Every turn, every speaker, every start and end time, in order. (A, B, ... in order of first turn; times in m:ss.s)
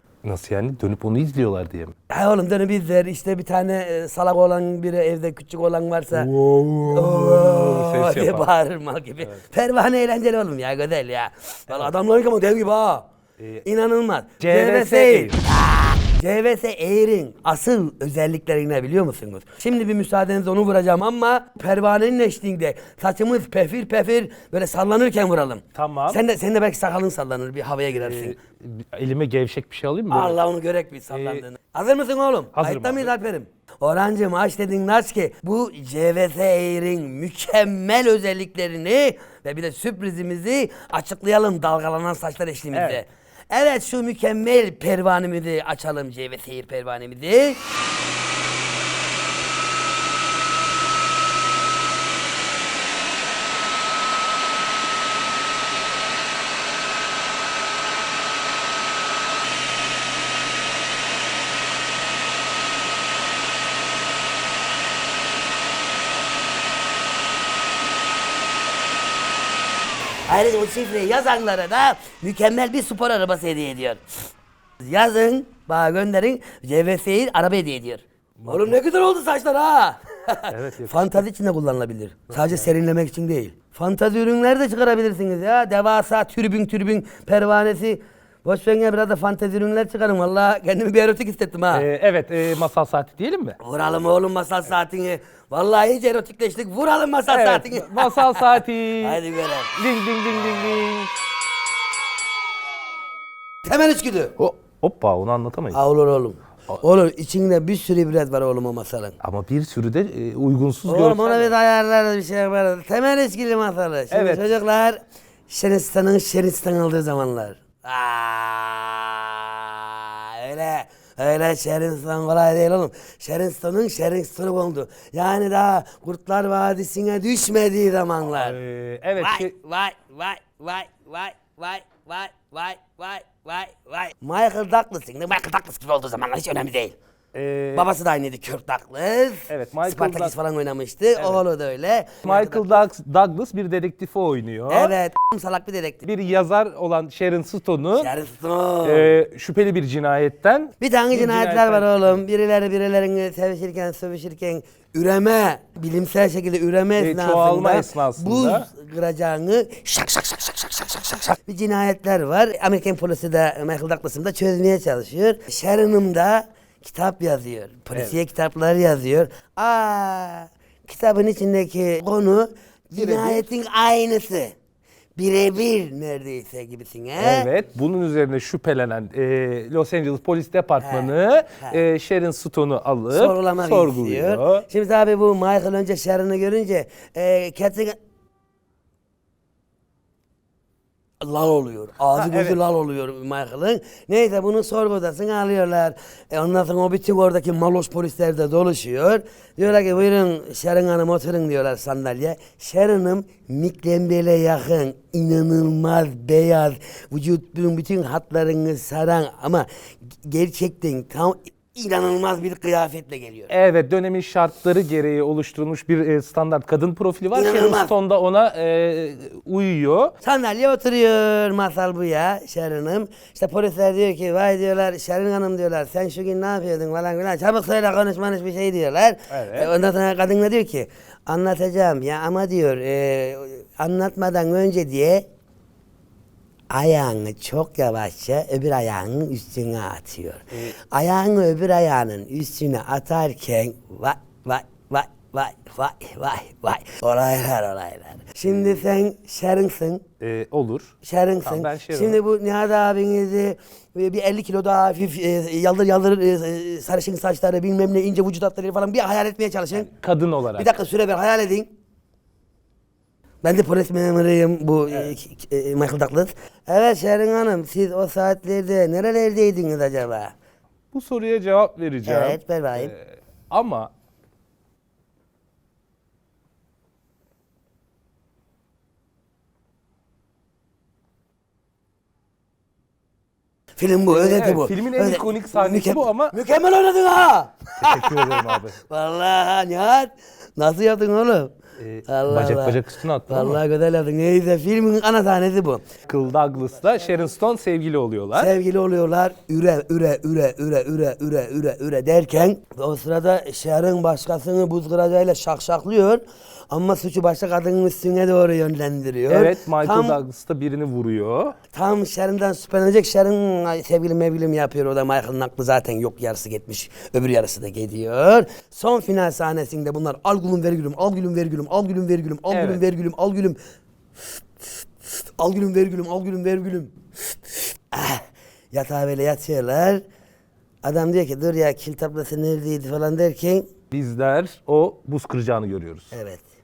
0:00.2-0:01.9 A
0:02.1-0:13.1 B
0:06.1-0:08.5 A
0:13.4-0:13.6 A
0:13.6-0:28.4 B
0:14.4-0:15.4 A
0:25.8-0:26.2 A
0:28.0-0:30.4 A
0:30.1-0:47.6 B
0:31.1-0:31.4 A
0:32.5-0:33.1 A
0:42.7-0:43.0 A
1:10.3-1:14.0 B
1:14.8-1:31.9 B
1:18.4-1:18.8 A
1:20.5-1:21.2 A
1:22.3-1:22.7 A
1:31.7-1:33.6 A
1:33.6-1:39.8 B
1:37.3-1:39.2 A
1:39.8-1:41.1 A
1:43.6-1:44.4 B
1:44.4-1:45.8 A
1:45.7-1:49.2 B
1:49.2-1:51.5 A
1:50.9-1:55.0 B
1:54.1-1:54.5 A
1:55.5-2:08.6 B
2:08.3-2:09.5 A
2:09.2-2:17.0 B
2:17.3-2:17.9 A
2:17.8-2:22.8 B
2:19.5-2:20.4 A
2:21.2-2:21.4 A
2:22.2-2:24.9 A
2:24.7-2:26.1 B
2:26.0-2:28.1 A
2:28.0-2:29.2 B
2:28.8-2:32.2 A
2:30.8-2:54.5 B
2:37.0-2:38.7 A
2:53.0-2:53.5 A
2:55.2-2:57.5 B
2:57.2-3:04.7 A
3:00.8-3:01.8 B
3:03.1-3:08.0 B
3:11.2-3:29.7 B
3:12.1-3:12.6 A
3:30.2-3:33.5 B
3:33.5-3:40.1 A
3:37.3-3:37.9 B
3:40.2-3:55.2 B
3:49.3-3:49.7 A
3:56.7-4:10.0 B
4:10.2-4:12.2 A
4:11.0-4:19.9 B
4:19.7-4:20.7 A
4:20.6-4:21.7 B
4:23.4-4:30.3 B
4:30.9-4:33.9 A
4:32.0-4:32.9 B
4:43.8-4:51.5 B
4:44.1-4:46.4 A
4:47.8-4:48.8 A
4:51.8-4:53.6 A
4:52.1-4:55.8 B
4:56.1-4:58.5 A
4:58.4-5:10.2 B
5:09.3-5:11.6 A
5:11.7-5:23.6 B
5:22.5-5:22.8 A
5:24.6-5:27.0 B
5:27.5-5:30.0 B
5:30.8-5:33.7 B
5:33.9-5:36.1 A
5:36.1-5:36.4 B